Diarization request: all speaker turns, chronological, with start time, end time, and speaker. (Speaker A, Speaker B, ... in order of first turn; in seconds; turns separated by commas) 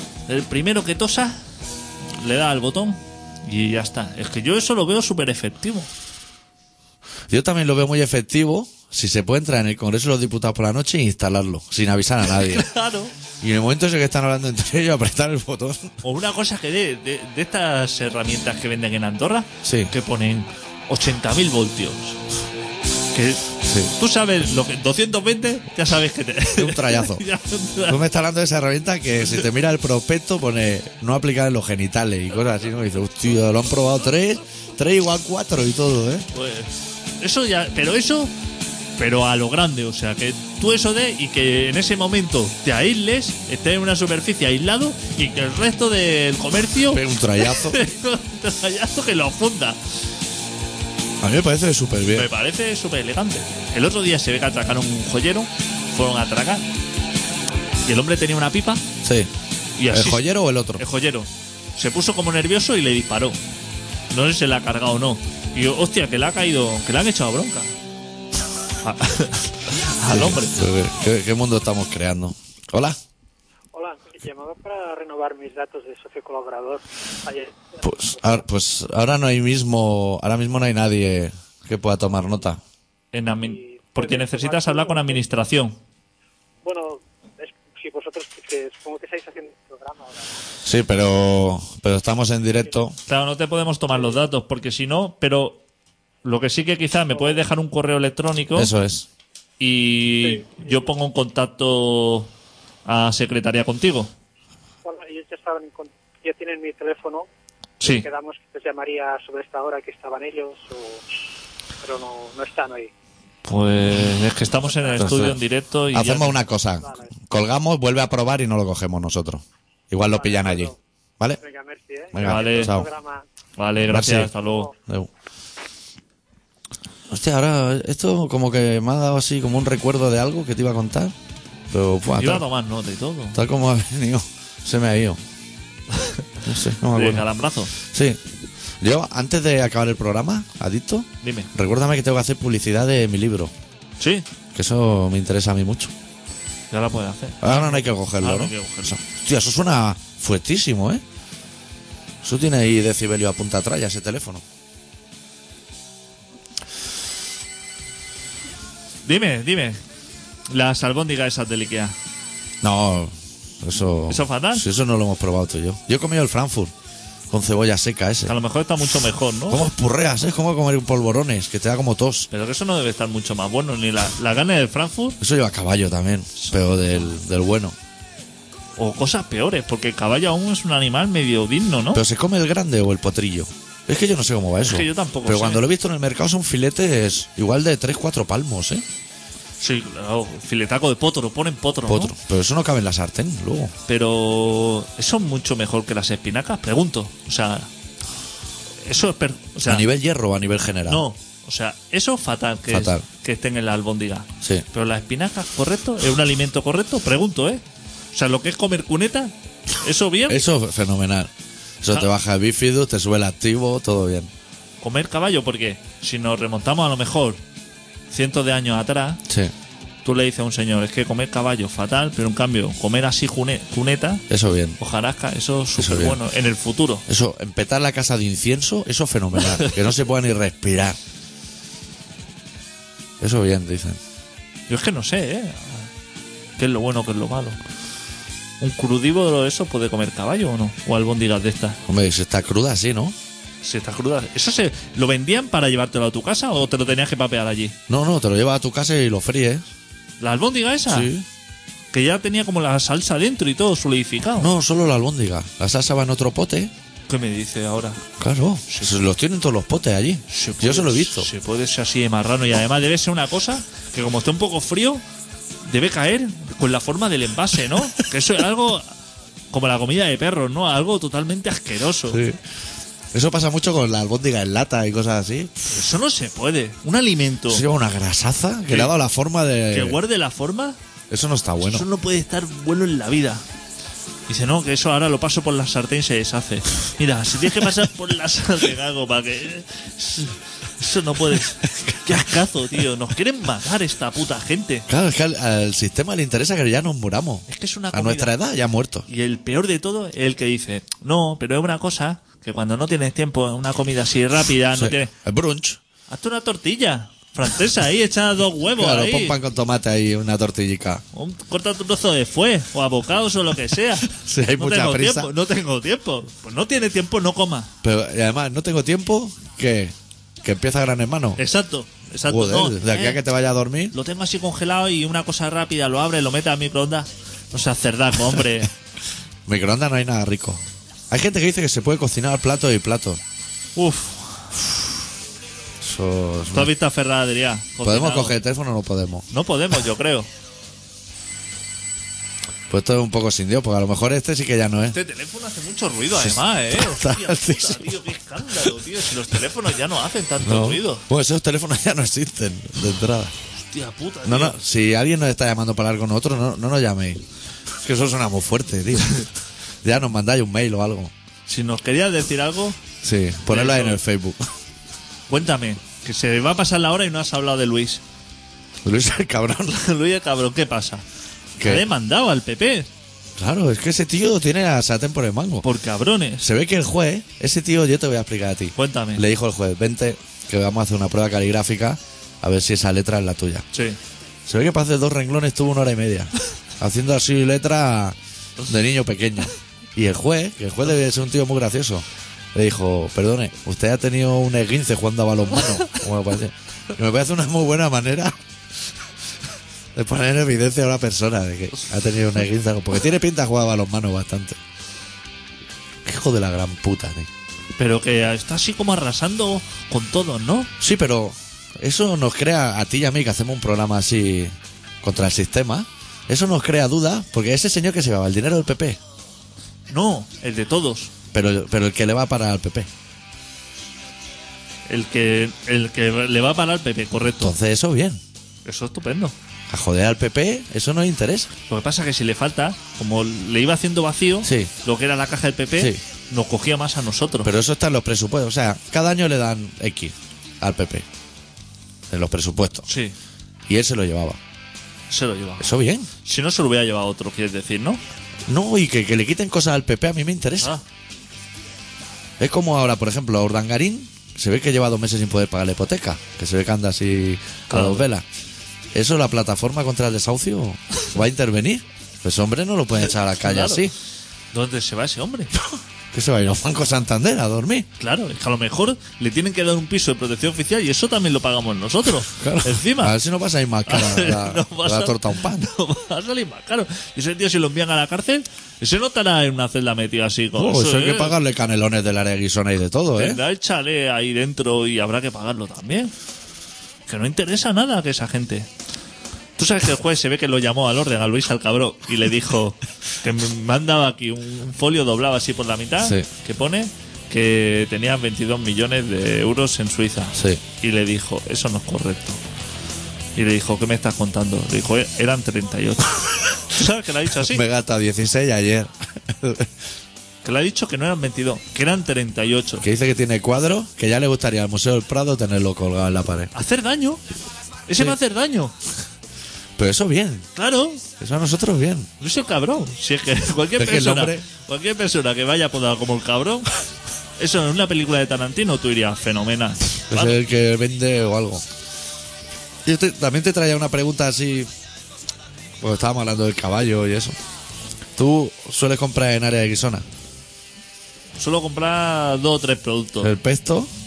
Speaker A: 0.3-1.4, Speaker A: 2.1-5.9, Speaker B: 7.3-12.7, Speaker A: 12.3-13.1, Speaker B: 13.4-16.0, Speaker A: 16.0-22.2, Speaker B: 19.6-19.9, Speaker A: 23.1-28.0, Speaker B: 23.6-23.9, Speaker B: 26.6-27.2, Speaker B: 27.9-36.2, Speaker A: 36.3-38.3, Speaker A: 39.0-49.8, Speaker B: 46.9-47.8, Speaker B: 51.2-52.3, Speaker A: 52.1-56.7, Speaker A: 57.8-58.8, Speaker B: 59.0-59.3, Speaker A: 59.8-63.4, Speaker B: 59.9-60.8, Speaker A: 64.1-67.7, Speaker A: 68.8-70.6, Speaker B: 70.1-73.0, Speaker C: 73.7-78.4, Speaker B: 77.8-82.6, Speaker A: 83.1-85.8, Speaker C: 83.4-85.2, Speaker C: 86.6-90.3, Speaker B: 90.6-93.0, Speaker A: 93.0-95.6, Speaker A: 96.2-98.7, Speaker C: 97.1-97.4, Speaker B: 98.5-99.1, Speaker A: 99.6-102.3, Speaker C: 100.2-100.9, Speaker A: 102.8-104.1, Speaker C: 104.8-107.3, Speaker A: 107.8-108.1, Speaker C: 107.8-111.0, Speaker C: 111.8-112.9, Speaker A: 113.4-116.4, Speaker C: 114.7-115.0, Speaker B: 115.0-115.4, Speaker B: 115.9-121.4, Speaker C: 120.2-120.8, Speaker C: 121.4-123.2, Speaker B: 122.1-122.9, Speaker A: 122.2-122.8, Speaker A: 123.6-124.7, Speaker B: 123.8-125.1, Speaker C: 124.4-124.7, Speaker B: 127.1-131.1, Speaker B: 131.7-132.4, Speaker A: 132.1-133.4, Speaker B: 133.3-135.2, Speaker A: 135.9-136.2, Speaker B: 136.4-138.2, Speaker A: 136.8-137.7, Speaker B: 138.8-143.5, Speaker A: 141.2-141.5, Speaker A: 144.0-144.2, Speaker B: 144.5-145.9, Speaker A: 146.7-149.0, Speaker B: 147.4-151.0, Speaker B: 152.2-154.4, Speaker A: 159.0-159.8, Speaker A: 160.5-161.9, Speaker B: 162.6-166.7, Speaker A: 164.1-164.7, Speaker B: 167.3-168.3, Speaker A: 168.2-169.7, Speaker B: 169.5-172.3, Speaker A: 172.3-175.2, Speaker B: 175.2-177.8, Speaker A: 176.4-177.1, Speaker A: 178.8-182.0, Speaker B: 181.9-188.8, Speaker A: 184.6-185.7, Speaker A: 189.6-192.2, Speaker B: 191.8-193.7, Speaker A: 193.9-197.7, Speaker A: 198.8-199.8, Speaker B: 199.6-201.1, Speaker A: 200.9-207.6, Speaker B: 202.7-203.1, Speaker A: 208.1-210.4, Speaker B: 210.3-214.3, Speaker A: 214.8-217.4, Speaker A: 218.1-219.2, Speaker B: 219.3-219.5, Speaker A: 220.0-224.2, Speaker B: 224.3-224.8, Speaker A: 224.8-227.0, Speaker B: 225.8-226.2, Speaker B: 227.1-231.0, Speaker B: 233.2-234.0, Speaker A: 234.7-235.9, Speaker A: 236.6-237.6, Speaker A: 238.6-241.8, Speaker B: 241.9-243.2, Speaker A: 243.6-247.8, Speaker B: 247.9-249.6, Speaker A: 250.2-251.1, Speaker B: 250.9-251.2, Speaker A: 251.9-254.5, Speaker B: 254.4-256.7, Speaker A: 257.1-258.0, Speaker B: 258.2-261.3, Speaker A: 258.7-259.0, Speaker A: 260.3-265.0, Speaker A: 265.6-268.9, Speaker A: 269.5-272.2, Speaker B: 272.1-272.4, Speaker B: 273.1-275.7, Speaker A: 275.7-277.6, Speaker B: 277.5-280.0, Speaker A: 278.7-278.9, Speaker A: 279.7-280.8, Speaker B: 281.1-281.9, Speaker A: 281.6-283.4, Speaker A: 284.3-294.9, Speaker B: 291.8-292.2, Speaker B: 294.9-299.1, Speaker A: 297.5-298.3, Speaker A: 299.1-305.1, Speaker B: 304.7-305.8, Speaker A: 306.1-309.4, Speaker B: 308.6-311.0, Speaker A: 311.1-317.7, Speaker B: 314.1-315.3, Speaker B: 317.8-321.4, Speaker A: 321.4-323.2, Speaker B: 322.3-323.9, Speaker A: 323.9-328.7, Speaker B: 329.5-333.2, Speaker A: 333.8-334.7, Speaker B: 335.8-336.7, Speaker A: 336.5-338.4, Speaker B: 337.8-339.3, Speaker A: 339.3-340.3, Speaker B: 342.7-345.0, Speaker A: 344.9-351.0, Speaker B: 346.1-348.0, Speaker B: 350.4-353.3, Speaker A: 353.5-354.6, Speaker B: 354.2-357.2, Speaker B: 357.8-359.3, Speaker B: 359.8-361.1, Speaker A: 361.5-362.8, Speaker B: 363.0-364.4, Speaker A: 363.5-364.0, Speaker A: 365.3-368.0, Speaker B: 368.8-369.8, Speaker A: 369.6-371.0, Speaker B: 371.6-371.9, Speaker A: 371.6-372.9, Speaker B: 373.4-375.6, Speaker A: 375.6-376.5, Speaker B: 376.4-383.6, Speaker A: 378.8-379.3, Speaker A: 383.7-384.0, Speaker B: 384.4-398.4, Speaker B: 399.9-404.6, Speaker B: 406.0-407.3, Speaker A: 407.8-410.7, Speaker B: 410.8-419.0, Speaker A: 419.9-421.1, Speaker B: 421.3-422.9, Speaker A: 424.9-427.5, Speaker B: 427.4-428.2, Speaker A: 428.6-429.3, Speaker B: 429.7-431.5, Speaker A: 431.7-437.5, Speaker B: 434.4-434.7, Speaker B: 437.4-441.1, Speaker B: 442.1-442.9, Speaker A: 442.9-443.1, Speaker B: 443.7-444.4, Speaker A: 445.1-448.0, Speaker B: 445.6-446.1, Speaker B: 448.5-450.7, Speaker B: 452.4-458.2, Speaker A: 457.7-458.1, Speaker B: 458.9-463.9, Speaker A: 463.4-463.8, Speaker A: 464.5-465.6, Speaker B: 466.1-467.9, Speaker A: 468.0-473.1, Speaker B: 472.2-475.7, Speaker A: 473.9-481.4, Speaker B: 480.6-483.4, Speaker A: 483.1-486.1, Speaker A: 487.1-488.7, Speaker A: 489.6-502.4, Speaker B: 496.0-496.3, Speaker B: 500.3-500.6, Speaker A: 503.4-507.6, Speaker B: 507.4-509.7, Speaker A: 510.4-512.8, Speaker B: 512.8-516.5, Speaker A: 516.5-517.2, Speaker A: 517.9-518.7, Speaker B: 519.8-520.5, Speaker A: 520.5-521.0, Speaker B: 521.2-522.1, Speaker A: 522.2-526.7, Speaker B: 523.8-524.4, Speaker A: 527.4-530.4, Speaker B: 530.1-531.6, Speaker B: 532.8-534.7, Speaker B: 535.8-537.4, Speaker B: 538.1-540.0, Speaker A: 541.4-543.3, Speaker B: 543.2-543.9